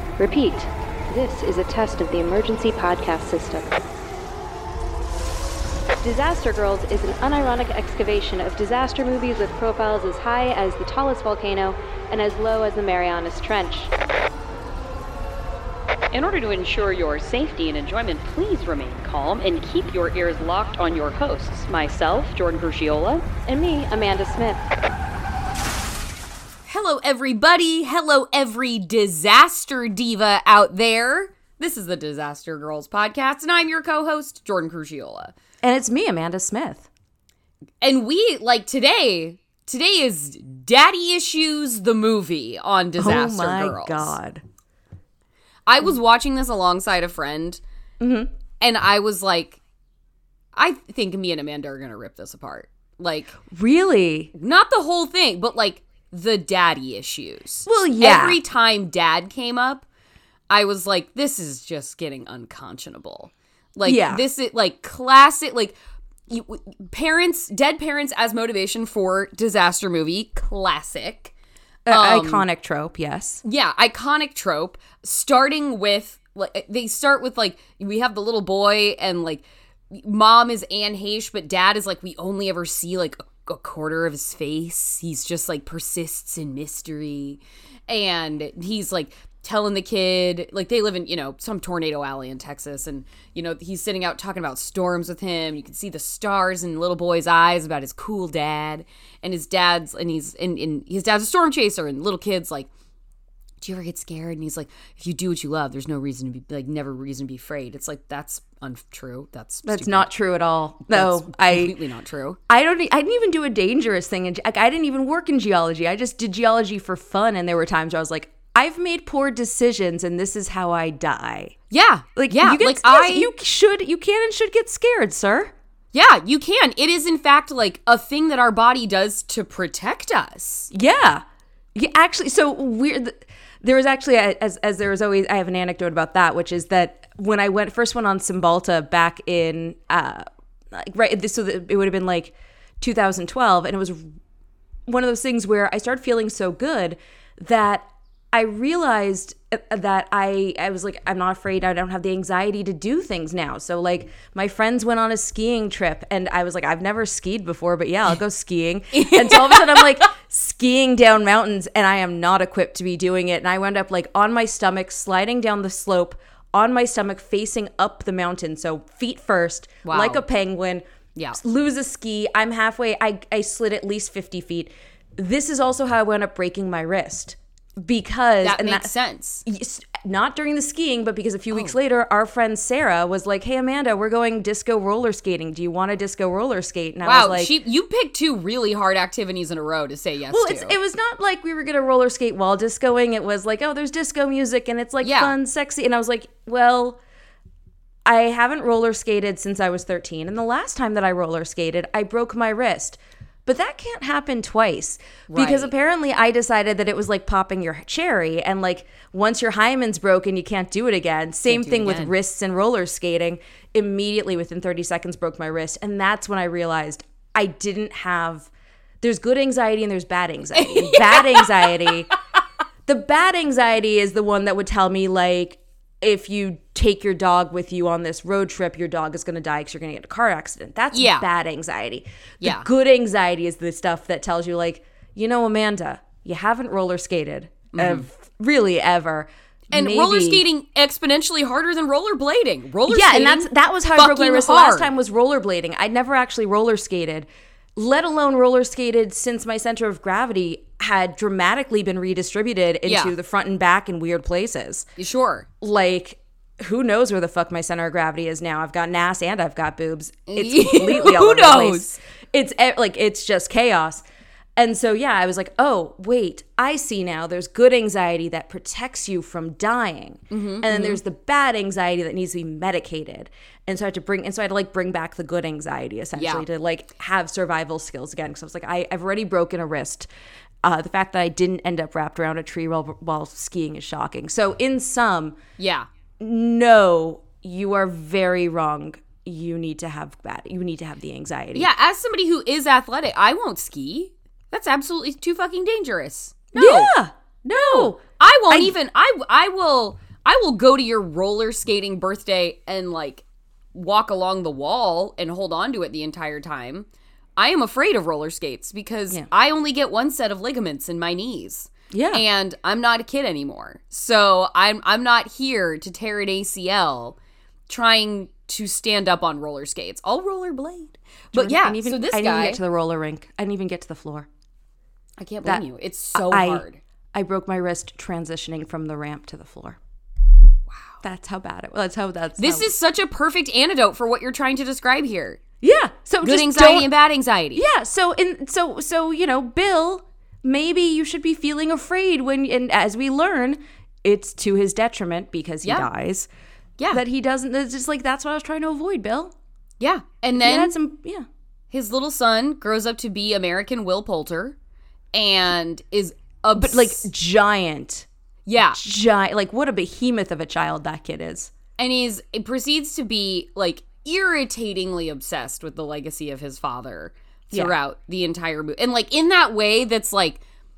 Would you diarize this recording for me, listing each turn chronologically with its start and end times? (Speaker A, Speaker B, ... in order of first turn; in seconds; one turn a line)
Speaker A: 0.2-3.7
Speaker A: 6.0-13.9
Speaker B: 16.1-23.3
Speaker A: 23.4-24.6
Speaker C: 26.7-35.3
Speaker D: 35.6-36.9
Speaker C: 37.8-44.1
Speaker D: 43.0-44.4
Speaker C: 45.6-47.6
Speaker D: 48.0-48.3
Speaker C: 48.6-49.6
Speaker C: 50.5-53.4
Speaker D: 53.5-54.3
Speaker C: 54.3-59.8
Speaker D: 57.6-58.4
Speaker C: 60.5-65.7
Speaker D: 63.8-64.2
Speaker C: 66.3-71.3
Speaker D: 71.8-73.4
Speaker C: 71.9-72.4
Speaker C: 73.4-102.7
Speaker C: 103.6-110.1
Speaker D: 109.7-111.8
Speaker C: 110.9-112.4
Speaker D: 112.5-121.5
Speaker C: 121.7-123.3
Speaker D: 122.2-125.5
Speaker C: 125.9-130.7
Speaker D: 130.7-131.2
Speaker D: 131.7-144.1
Speaker D: 144.9-170.8
Speaker C: 158.9-159.9
Speaker C: 169.8-170.2
Speaker D: 171.3-178.9
Speaker C: 178.4-179.4
Speaker D: 179.4-187.5
Speaker C: 187.0-190.7
Speaker D: 190.3-197.0
Speaker C: 195.0-195.3
Speaker D: 198.0-218.5
Speaker C: 205.3-205.7
Speaker C: 211.5-212.1
Speaker D: 219.0-222.1
Speaker C: 220.5-221.9
Speaker D: 222.8-240.4
Speaker C: 230.9-231.3
Speaker C: 232.4-232.7
Speaker C: 237.7-238.1
Speaker C: 239.7-244.9
Speaker D: 242.9-254.9
Speaker C: 252.8-253.1
Speaker C: 255.0-255.5
Speaker D: 255.6-264.0
Speaker C: 260.3-261.9
Speaker D: 264.6-280.1
Speaker C: 270.3-271.0
Speaker C: 276.1-276.4
Speaker D: 280.6-285.4
Speaker C: 285.6-285.9
Speaker D: 286.2-291.7
Speaker C: 291.5-296.9
Speaker D: 296.5-298.7
Speaker C: 297.5-306.9
Speaker C: 307.4-317.1
Speaker D: 311.9-312.2
Speaker C: 317.7-322.6
Speaker D: 321.3-324.3
Speaker C: 325.2-326.8
Speaker D: 325.4-329.8
Speaker C: 330.7-331.0
Speaker D: 331.0-332.7
Speaker C: 332.4-335.4
Speaker D: 335.6-336.9
Speaker C: 336.2-337.6
Speaker D: 337.5-346.3
Speaker D: 346.9-349.3
Speaker C: 349.8-350.7
Speaker D: 350.4-351.2
Speaker C: 351.7-354.6
Speaker C: 355.1-357.1
Speaker D: 356.5-358.1
Speaker C: 358.4-358.8
Speaker D: 358.6-361.5
Speaker C: 361.8-370.4